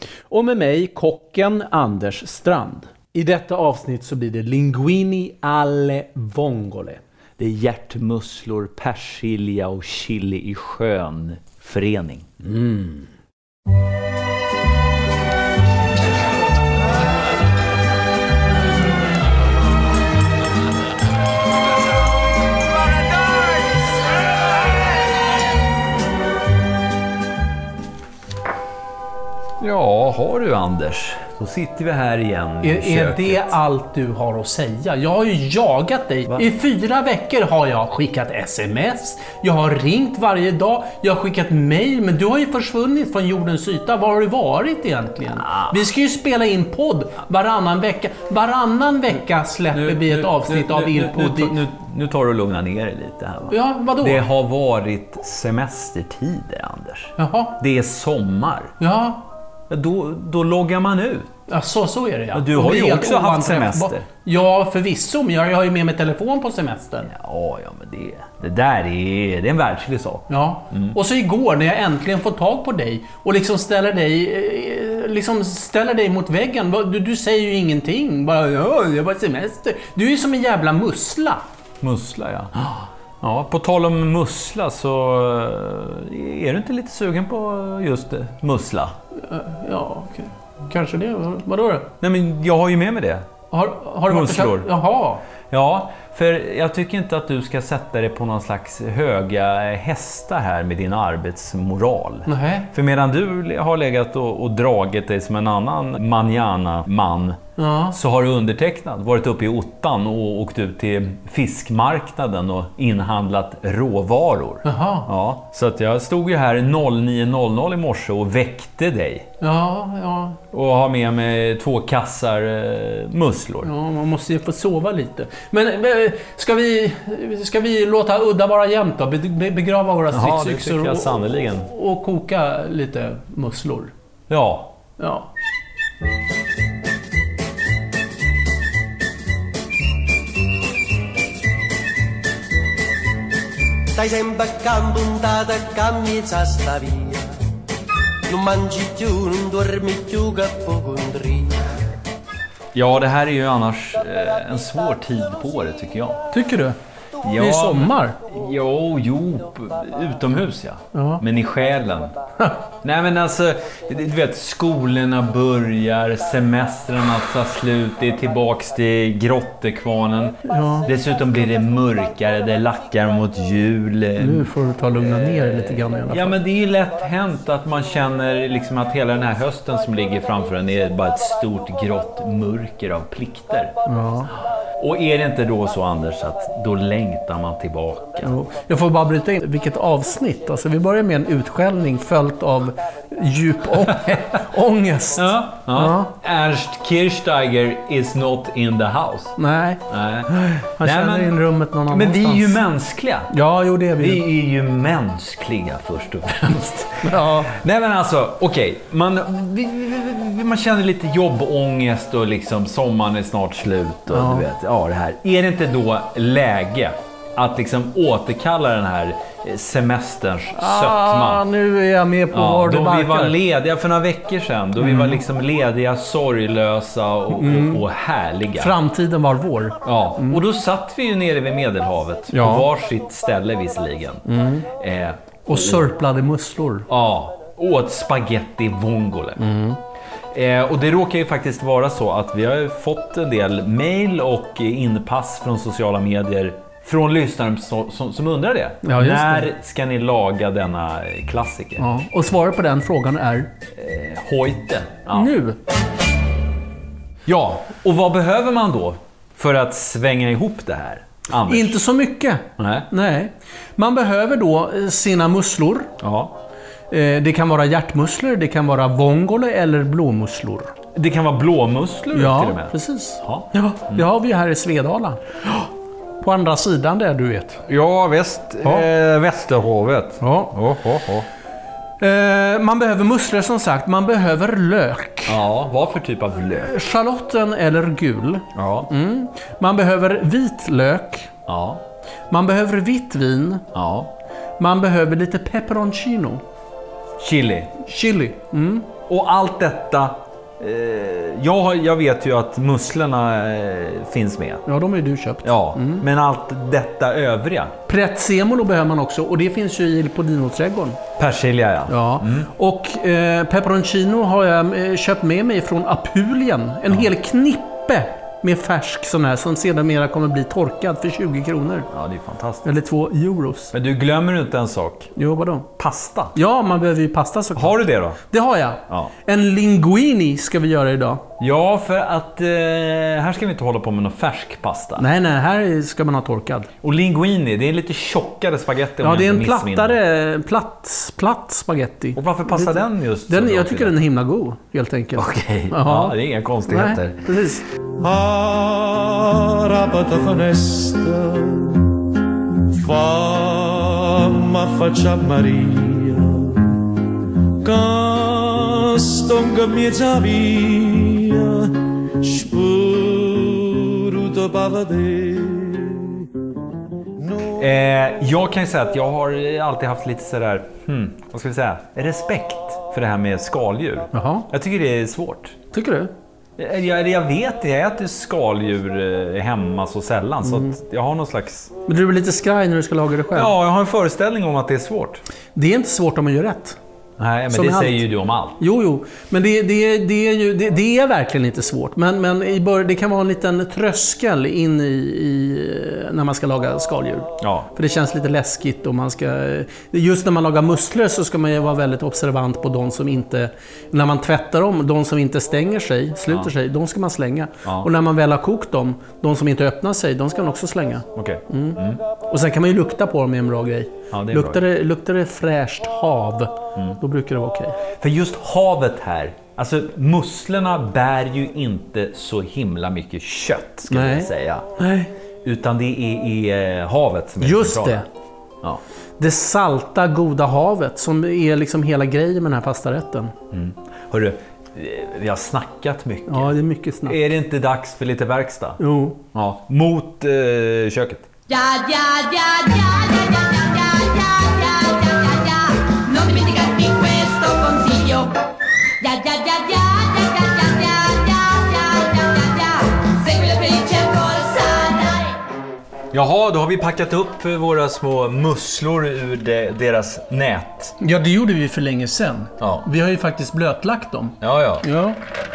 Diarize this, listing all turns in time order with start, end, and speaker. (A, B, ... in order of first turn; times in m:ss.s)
0:00.3-0:07.0 A
0:07.4-0:12.5 B
0:12.5-0:12.9 A
0:29.6-0:33.5 B
0:32.6-0:51.6 A
0:45.4-0:45.8 B
0:49.7-0:58.7 B
0:53.5-0:54.2 A
0:57.2-0:57.6 A
0:58.8-0:59.3 A
0:59.7-1:01.3 B
1:01.5-1:07.1 A
1:02.3-1:04.1 B
1:07.1-1:11.0 B
1:10.3-1:21.4 A
1:21.8-1:28.9 B
1:29.2-1:31.9 A
1:32.0-1:33.3 B
1:33.5-1:35.2 A
1:34.1-1:34.7 B
1:35.5-1:47.4 B
1:42.3-1:42.7 A
1:47.6-1:48.0 A
1:47.9-1:59.3 B
1:54.6-1:55.1 A
1:59.4-2:00.4 A
2:00.5-2:03.7 B
2:03.6-2:13.9 A
2:10.1-2:11.7 B
2:14.3-2:14.7 B
2:15.0-2:15.3 A
2:23.9-2:27.4 C
2:28.3-2:31.6 C
2:32.7-2:36.3 B
2:36.3-2:36.8 A
2:37.2-2:42.2 B
2:37.4-2:38.2 A
2:40.9-2:41.2 A
2:42.8-3:03.8 B
2:50.4-2:50.9 A
2:54.2-2:56.4 A
3:03.9-3:04.3 A
3:04.8-3:08.3 B
3:08.2-3:16.1 A
3:15.2-3:19.4 B
3:19.4-3:22.6 A
3:19.9-3:21.4 B
3:21.9-3:23.3 B
3:23.3-3:24.3 A
3:24.0-3:41.4 B
3:27.0-3:27.6 A
3:34.1-3:34.5 A
3:40.6-3:43.4 A
3:42.3-3:48.7 B
3:44.8-3:45.2 A
3:47.3-3:47.8 A
3:48.6-3:50.4 A
3:49.8-3:55.9 B
3:52.3-3:52.7 A
3:54.3-3:54.6 A
3:55.5-3:56.9 A
3:56.9-3:59.5 B
3:59.4-3:59.8 A
4:00.3-4:11.9 B
4:08.8-4:09.5 A
4:11.8-4:13.5 A
4:13.7-4:15.3 B
4:15.1-4:15.6 A
4:17.3-4:21.8 B
4:21.5-4:25.9 A
4:22.6-4:22.9 B
4:26.0-4:26.4 B
4:26.9-4:30.7 A
4:31.0-4:34.0 B
4:32.1-4:35.2 A
4:36.2-4:37.6 A
4:37.7-4:41.3 B
4:40.2-4:40.5 A
4:42.0-4:45.4 A
4:45.3-4:46.8 B
4:46.6-4:51.3 A
4:48.6-4:48.9 B
4:51.5-4:51.8 B
4:52.3-4:53.6 A
4:53.7-4:54.1 B
4:54.6-4:56.4 A
4:57.2-4:57.8 B
4:57.8-4:58.9 A
4:59.1-5:04.6 B
5:04.7-5:06.0 A
5:05.4-5:07.8 B
5:07.9-5:11.0 A
5:11.2-5:12.5 B
5:11.9-5:21.9 A
5:21.9-5:22.7 B
5:22.6-5:23.7 A
5:23.7-5:25.1 B
5:25.2-5:25.7 A
5:25.8-5:26.4 B
5:26.4-5:31.2 A
5:27.6-5:28.2 B
5:31.4-5:35.1 B
5:35.0-5:36.7 A
5:36.8-5:40.0 B
5:39.0-5:46.2 A
5:42.2-5:44.0 B
5:45.2-5:47.3 B
5:46.7-5:47.6 A
5:48.0-5:52.0 D
5:52.8-5:56.9 D
5:57.6-6:06.3 D
6:07.6-6:15.6 B
6:14.1-6:14.5 A
6:15.7-6:16.1 A
6:16.6-6:21.7 B
6:20.4-6:20.7 A
6:21.9-6:23.5 A
6:23.4-6:25.2 B
6:25.6-6:26.8 A
6:27.2-6:28.6 B
6:27.5-6:28.0 A
6:28.6-6:57.8 A
6:37.4-6:37.7 B
6:47.6-6:47.9 B
6:51.2-6:52.0 B
6:54.1-6:54.6 B
6:58.0-7:04.8 B
7:03.9-7:05.1 A
7:05.4-7:08.0 B
7:07.4-7:08.1 A
7:09.2-7:13.4 A
7:13.5-7:18.8 B
7:16.3-7:17.2 A
7:18.8-7:19.2 A
7:19.3-7:21.3 B
7:21.5-7:28.3 E
7:29.0-7:35.4 E
7:36.1-7:41.0 B
7:41.0-7:45.2 A
7:42.6-7:42.9 B
7:44.4-7:44.9 B